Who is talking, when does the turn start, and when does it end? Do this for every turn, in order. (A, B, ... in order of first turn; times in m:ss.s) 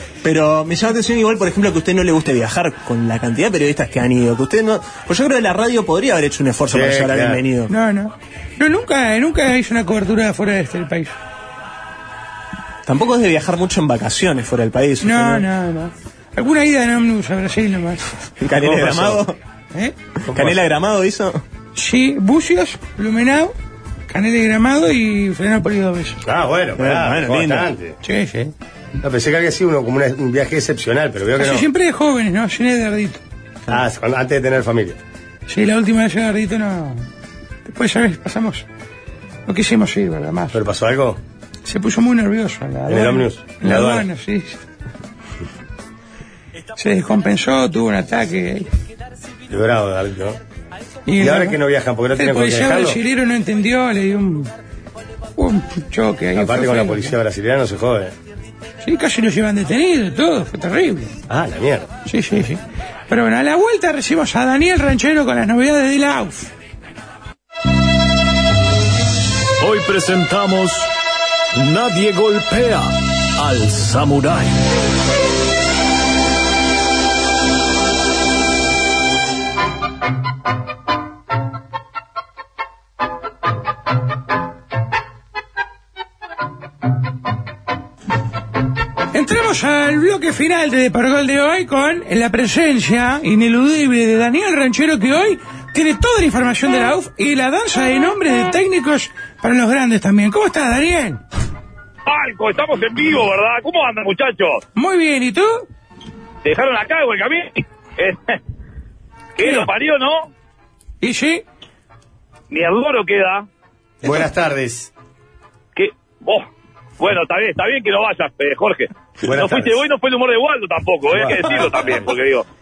0:00.2-0:07.7 A
0:06.7-0:07.4 B
0:07.7-0:11.1 C
0:12.8-0:15.5 A
0:15.0-0:18.1 C
0:18.4-0:19.4 A
0:18.6-0:19.3 B
0:20.3-0:20.6 B
0:20.3-0:21.4 A
0:21.8-0:23.5 C
0:24.1-0:26.2 C
0:26.2-0:28.0 B
0:26.8-0:27.7 A
0:28.0-0:28.5 C
0:29.0-0:31.7 B
0:31.4-0:33.2 C
0:33.7-0:35.0 B
0:35.5-0:37.0 C
0:37.6-0:38.6 C
0:39.5-0:40.6 C
0:40.5-0:41.2 B
0:41.6-0:44.6 C
0:42.9-0:44.1 B
0:46.8-0:48.7 C
0:49.5-0:50.4 B
0:51.1-0:51.6 C
0:51.2-0:53.0 B
0:52.2-0:54.5 C
0:55.4-0:57.1 C
0:56.4-0:58.1 B
0:58.8-1:01.1 C
1:01.3-1:01.9 B
1:02.1-1:06.5 C
1:09.6-1:10.9 D
1:11.6-1:14.6 D
1:29.1-1:41.2 C
1:42.1-1:44.6 E
1:44.7-1:45.6 C
1:46.4-1:48.4 E
1:49.4-1:50.3 E
1:49.4-1:49.7 C
1:51.0-1:51.4 C
1:52.5-1:53.4 E
1:54.0-1:54.9 B
1:55.8-1:56.4 E
1:57.0-2:02.4 E
1:59.2-1:59.8 B
2:01.1-2:02.0 B